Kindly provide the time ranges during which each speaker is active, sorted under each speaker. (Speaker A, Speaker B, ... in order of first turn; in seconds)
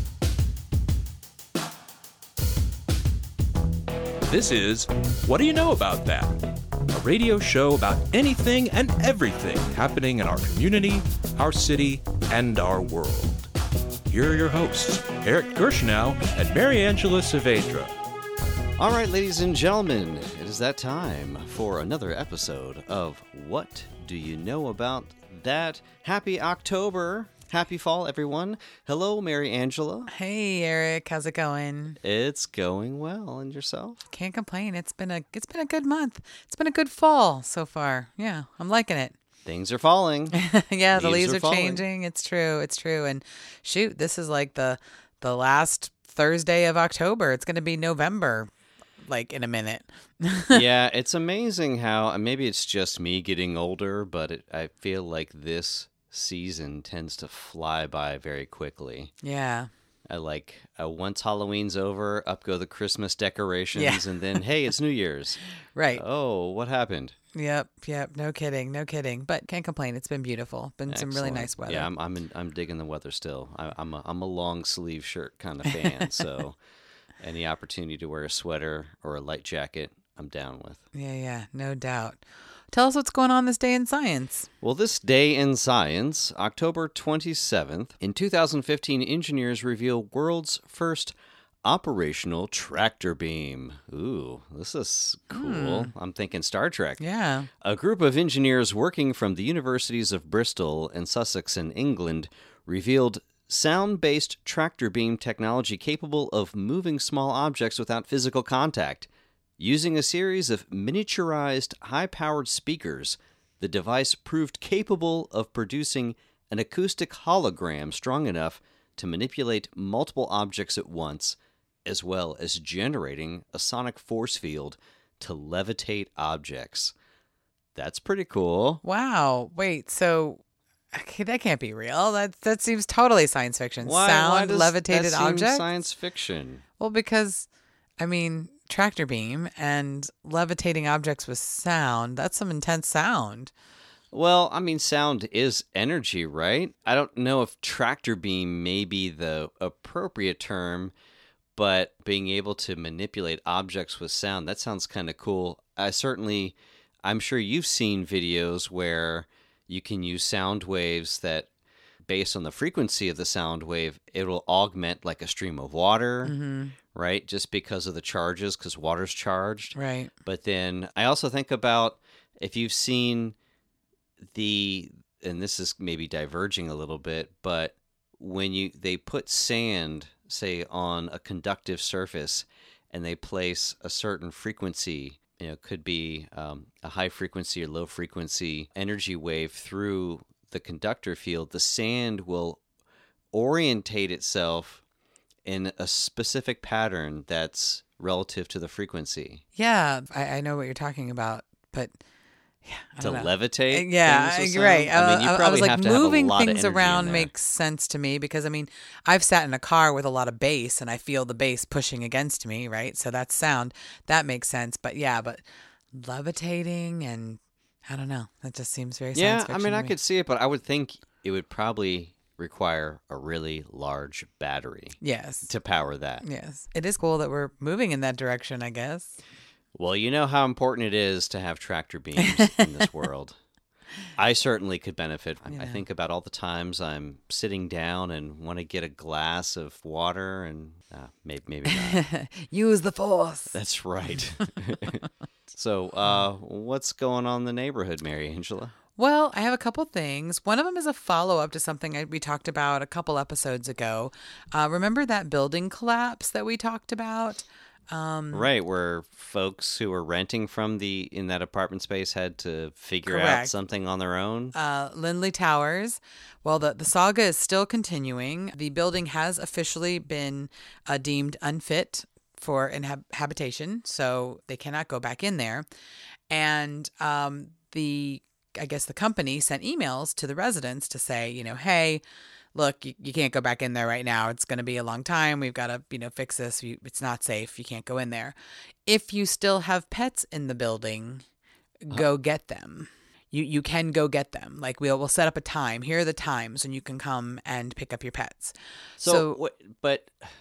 Speaker A: 4.3-6.4, 6.9-13.5, 14.1-17.9
Speaker B: 18.8-30.1, 32.0-34.0, 39.5-41.8, 50.5-59.1, 60.1-65.4, 66.0-67.2, 70.9-76.6, 77.2-80.8, 84.6-97.0, 97.6-126.9, 127.8-128.8, 133.8-136.6, 144.1-150.9, 151.6-161.5, 162.0-166.3, 166.9-173.4, 174.2-192.6, 193.3-194.8, 195.4-199.4, 203.0-207.3, 219.1-226.2, 229.8-233.4, 234.2-242.0, 243.5-248.7, 258.3-264.6, 299.0-300.3
Speaker C: 30.1-32.0, 34.1-39.1, 40.3-48.5, 49.0-50.6, 59.2-59.7, 63.7-64.4, 65.8-66.0, 67.3-71.9, 75.7-76.1, 80.9-84.5, 95.3-95.9, 97.0-97.5, 128.8-130.4, 130.9-135.7, 136.8-137.5, 138.0-143.5, 166.2-166.8, 169.8-170.1, 199.6-201.9, 202.6-219.9, 225.0-225.5, 226.2-229.2, 232.2-232.6, 235.5-235.8, 241.7-243.6, 249.0-258.5, 263.1-263.5, 264.5-275.7, 276.3-282.0, 282.6-291.2, 291.9-299.4